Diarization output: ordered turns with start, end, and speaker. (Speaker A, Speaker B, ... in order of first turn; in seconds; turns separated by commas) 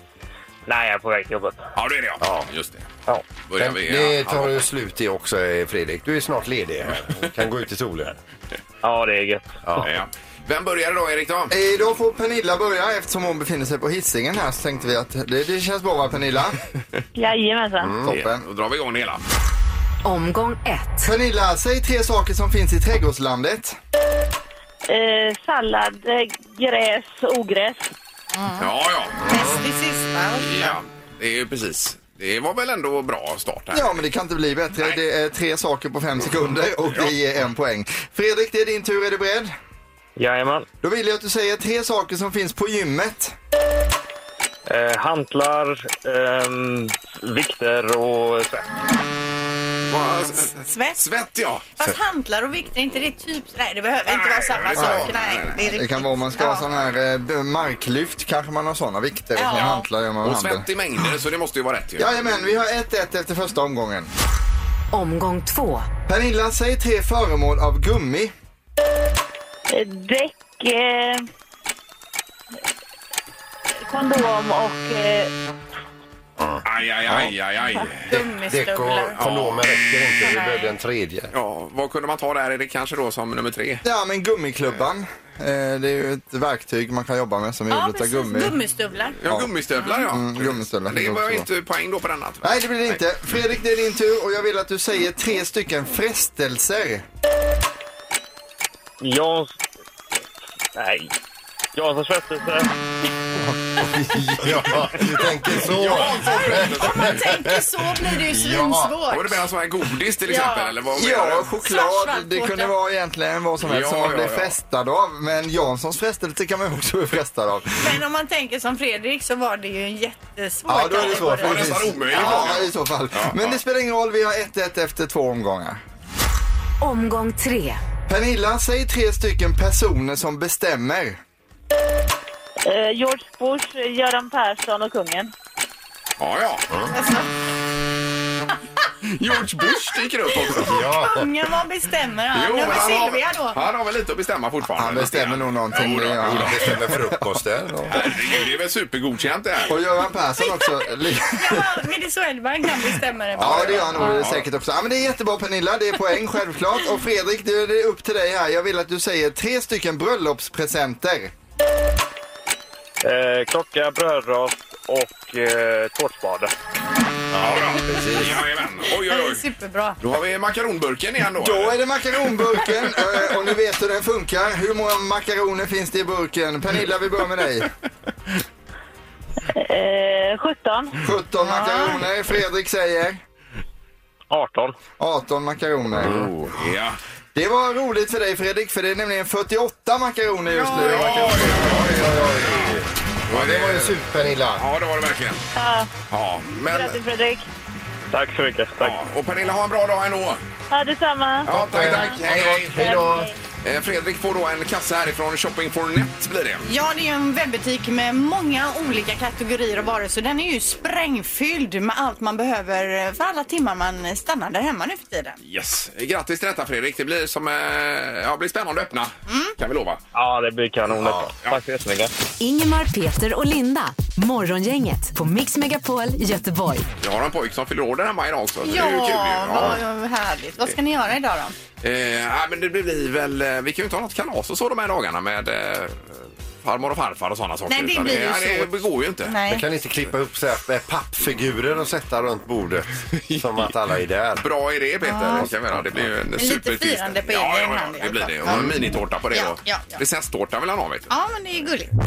Speaker A: 0.7-1.6, Speaker B: 1.8-2.9, Speaker C: 2.2-2.5, Speaker B: 3.4-4.6, Speaker C: 3.6-8.2, Speaker A: 8.8-9.9, Speaker B: 9.8-11.5, Speaker D: 11.5-16.6, Speaker E: 17.2-18.0, Speaker C: 17.8-18.1, Speaker D: 18.0-18.4, Speaker B: 18.1-19.2, Speaker F: 20.0-21.1, Speaker D: 21.1-23.8, Speaker E: 24.9-27.9, Speaker G: 28.3-28.7, Speaker B: 28.6-29.3, Speaker G: 29.2-30.8, Speaker B: 30.4-34.0, Speaker D: 33.7-39.5, Speaker A: 40.2-40.7, Speaker D: 40.8-43.3, Speaker A: 44.7-48.6, Speaker B: 49.9-51.7, Speaker G: 50.5-51.0, Speaker G: 51.8-56.6, Speaker B: 54.1-55.6, Speaker D: 54.8-55.1, Speaker D: 55.7-60.7, Speaker G: 59.4-59.9, Speaker B: 60.2-62.1, Speaker D: 62.0-64.1, Speaker F: 64.9-65.9, Speaker D: 66.1-68.3, Speaker E: 69.7-71.3, Speaker E: 73.9-75.3, Speaker C: 76.4-77.3, Speaker B: 76.7-78.2, Speaker G: 78.1-79.2, Speaker C: 78.4-81.3, Speaker B: 79.2-79.7, Speaker G: 80.2-80.7, Speaker B: 81.3-83.8, Speaker D: 83.8-88.6, Speaker G: 87.7-89.2, Speaker B: 89.2-93.0, Speaker D: 90.1-91.5, Speaker D: 92.4-97.0, Speaker A: 99.0-99.6, Speaker A: 100.8-101.1, Speaker A: 101.8-102.7, Speaker D: 104.1-104.5, Speaker C: 104.3-109.0, Speaker B: 105.6-107.3, Speaker G: 106.2-109.4, Speaker B: 109.1-111.5, Speaker G: 110.3-110.8, Speaker D: 111.0-118.0, Speaker G: 111.6-112.7, Speaker B: 113.6-114.5, Speaker G: 117.8-122.5, Speaker D: 120.7-125.8, Speaker B: 121.0-123.6, Speaker F: 126.8-127.8, Speaker D: 128.1-131.2, Speaker E: 132.7-135.3, Speaker B: 136.2-136.7, Speaker G: 136.9-137.3, Speaker B: 139.2-140.9, Speaker C: 140.6-141.3, Speaker G: 140.7-143.6, Speaker B: 142.3-146.7, Speaker D: 144.7-147.3, Speaker C: 146.2-148.1, Speaker B: 147.9-149.8, Speaker D: 149.7-151.8, Speaker G: 150.4-150.7, Speaker G: 151.3-154.2, Speaker B: 153.4-154.4, Speaker D: 153.4-161.3, Speaker A: 163.0-166.5, Speaker C: 167.3-168.4, Speaker A: 167.4-168.2, Speaker B: 167.4-169.4, Speaker G: 168.9-170.0, Speaker B: 170.0-171.8, Speaker D: 171.4-177.7, Speaker E: 179.5-181.0, Speaker D: 181.0-183.2, Speaker G: 181.4-182.0, Speaker A: 184.3-184.8, Speaker D: 185.0-186.3, Speaker B: 185.9-187.0, Speaker D: 187.3-192.0, Speaker B: 190.6-192.7, Speaker C: 191.5-194.7, Speaker B: 193.3-194.0, Speaker B: 194.6-195.4, Speaker E: 195.5-195.9, Speaker B: 196.1-197.0, Speaker E: 196.7-197.4, Speaker A: 198.1-199.0, Speaker B: 198.8-200.4, Speaker E: 200.7-202.0, Speaker C: 201.4-203.3, Speaker B: 201.5-203.1, Speaker E: 202.8-203.3, Speaker B: 203.6-206.7, Speaker G: 206.7-215.4, Speaker B: 215.4-220.0, Speaker G: 219.3-219.5, Speaker A: 220.1-222.1, Speaker C: 220.9-221.3, Speaker F: 222.4-226.9, Speaker B: 227.0-229.8, Speaker G: 228.6-231.6, Speaker B: 231.8-239.3, Speaker G: 237.7-239.6, Speaker C: 239.5-244.5, Speaker B: 243.2-243.7, Speaker B: 244.4-251.1, Speaker G: 245.1-245.5, Speaker C: 245.4-246.1, Speaker G: 246.4-248.8, Speaker G: 249.3-250.0, Speaker G: 251.1-251.9